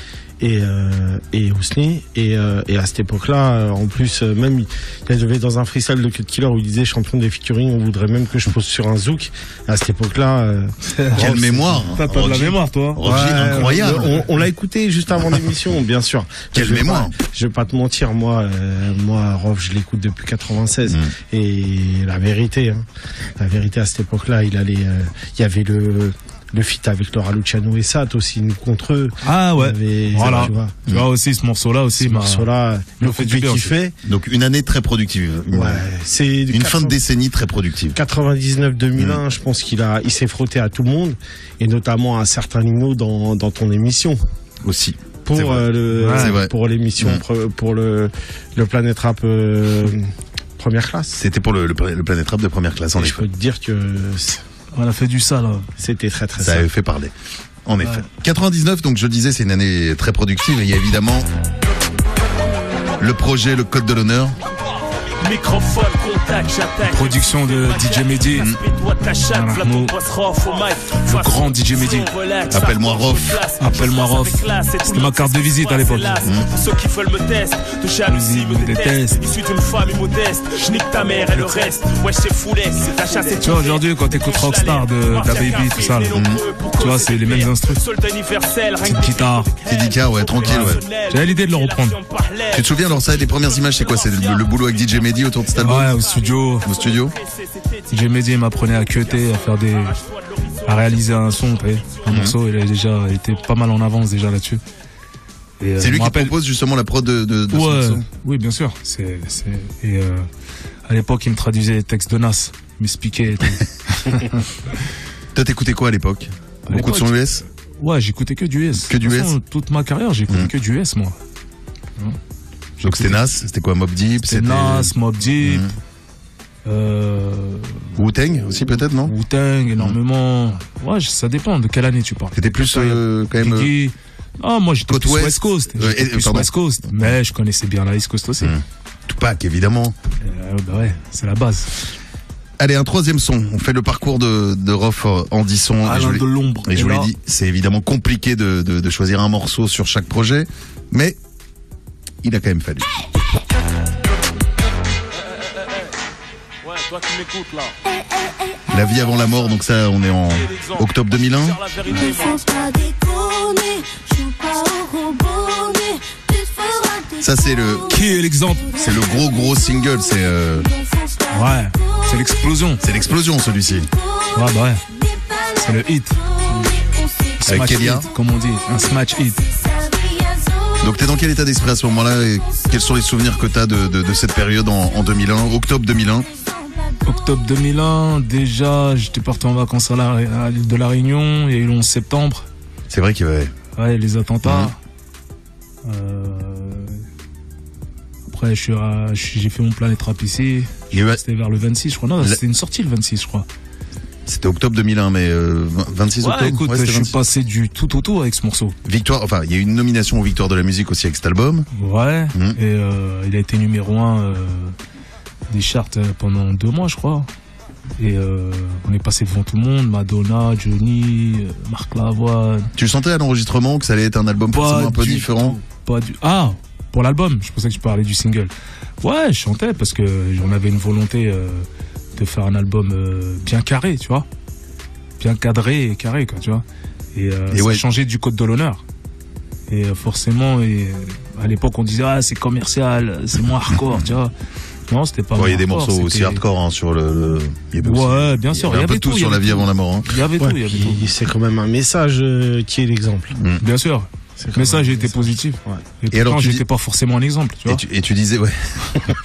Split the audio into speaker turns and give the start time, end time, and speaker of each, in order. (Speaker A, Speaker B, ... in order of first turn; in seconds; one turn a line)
Speaker A: 0.4-11.7
Speaker B: 11.0-14.0
Speaker C: 11.1-14.2
Speaker A: 13.0-22.9
Speaker C: 16.5-17.1
Speaker C: 20.9-21.1
Speaker A: 23.4-30.7
Speaker B: 29.2-32.5
Speaker A: 32.0-33.9
Speaker B: 33.0-33.7
Speaker C: 34.0-35.9
Speaker A: 35.5-37.0
Speaker C: 36.5-38.0
Speaker A: 37.9-44.2
Speaker C: 39.0-39.2
Speaker C: 44.6-47.2
Speaker A: 45.3-51.2
Speaker B: 45.9-46.4
Speaker C: 51.1-53.2
Speaker A: 53.0-54.4
Speaker B: 54.7-55.7
Speaker A: 55.8-56.7
Speaker C: 56.4-57.1
Speaker C: 57.6-61.3
Speaker C: 63.0-64.4
Speaker D: 65.2-91.2
Speaker B: 66.8-68.5
Speaker C: 68.3-68.6
Speaker B: 69.3-70.0
Speaker B: 71.0-72.1
Speaker C: 72.5-73.4
Speaker B: 73.6-76.3
Speaker C: 76.2-76.5
Speaker B: 78.0-79.2
Speaker B: 83.3-86.2
Speaker C: 86.1-86.4
Speaker B: 86.7-87.8
Speaker B: 88.8-89.5
Speaker C: 89.6-90.8
Speaker B: 90.4-92.0
Speaker D: 91.8-94.7
Speaker C: 92.5-95.9
Speaker B: 95.6-96.7
Speaker C: 96.6-97.1
Speaker D: 96.7-97.9
Speaker B: 97.9-100.0
Speaker D: 100.0-100.6
Speaker B: 100.7-104.6
Speaker C: 102.0-102.3
Speaker B: 105.6-106.3
Speaker C: 105.8-108.0
Speaker B: 107.5-110.3
Speaker B: 110.9-114.5
Speaker C: 115.3-117.4
Speaker B: 116.7-117.2
Speaker B: 117.8-121.2
Speaker C: 118.8-119.3
Speaker C: 122.8-125.7
Speaker B: 122.9-123.2
Speaker B: 124.2-125.8
Speaker B: 126.6-127.9
Speaker C: 127.9-129.1
Speaker B: 129.0-138.5
Speaker C: 132.3-133.7
Speaker C: 134.9-137.1
Speaker C: 138.4-139.9
Speaker B: 140.2-141.7
Speaker C: 142.6-151.2
Speaker B: 145.8-147.1
Speaker C: 152.2-152.9
Speaker D: 156.6-157.8
Speaker E: 157.9-158.8
Speaker C: 158.7-161.6
Speaker D: 160.3-162.4
Speaker E: 161.9-168.1
Speaker C: 167.2-167.8
Speaker B: 167.9-168.8
Speaker E: 168.7-169.5
Speaker C: 168.8-170.7
Speaker E: 170.6-172.3
Speaker B: 171.3-172.8
Speaker C: 172.8-173.9
Speaker E: 173.9-178.1
Speaker B: 174.3-174.8
Speaker B: 175.6-176.2
Speaker B: 177.4-179.4
Speaker C: 177.4-178.1
Speaker E: 178.7-181.1
Speaker C: 180.8-186.3
Speaker E: 182.4-182.7
Speaker E: 186.3-187.3
Speaker B: 187.0-192.5
Speaker C: 192.9-193.5
Speaker B: 193.8-194.8
Speaker C: 194.4-194.7
Speaker B: 195.8-197.0
Speaker B: 198.3-203.5
Speaker C: 200.9-201.2
Speaker C: 204.2-207.1
Speaker B: 206.2-208.8
Speaker C: 208.8-211.7
Speaker B: 211.7-214.7
Speaker B: 215.5-217.3
Speaker B: 218.0-222.7
Speaker C: 222.8-225.6
Speaker B: 224.5-234.2
Speaker B: 235.2-236.6
Speaker B: 237.1-238.8
Speaker C: 237.5-237.8
Speaker B: 239.7-244.3
Speaker B: 244.9-246.4
Speaker C: 245.3-250.1
Speaker B: 247.8-251.1
Speaker A: 250.4-253.3
Speaker C: 253.3-253.6
Speaker B: 253.6-257.8
Speaker A: 254.4-255.8
Speaker C: 256.1-256.6
Speaker C: 257.7-259.1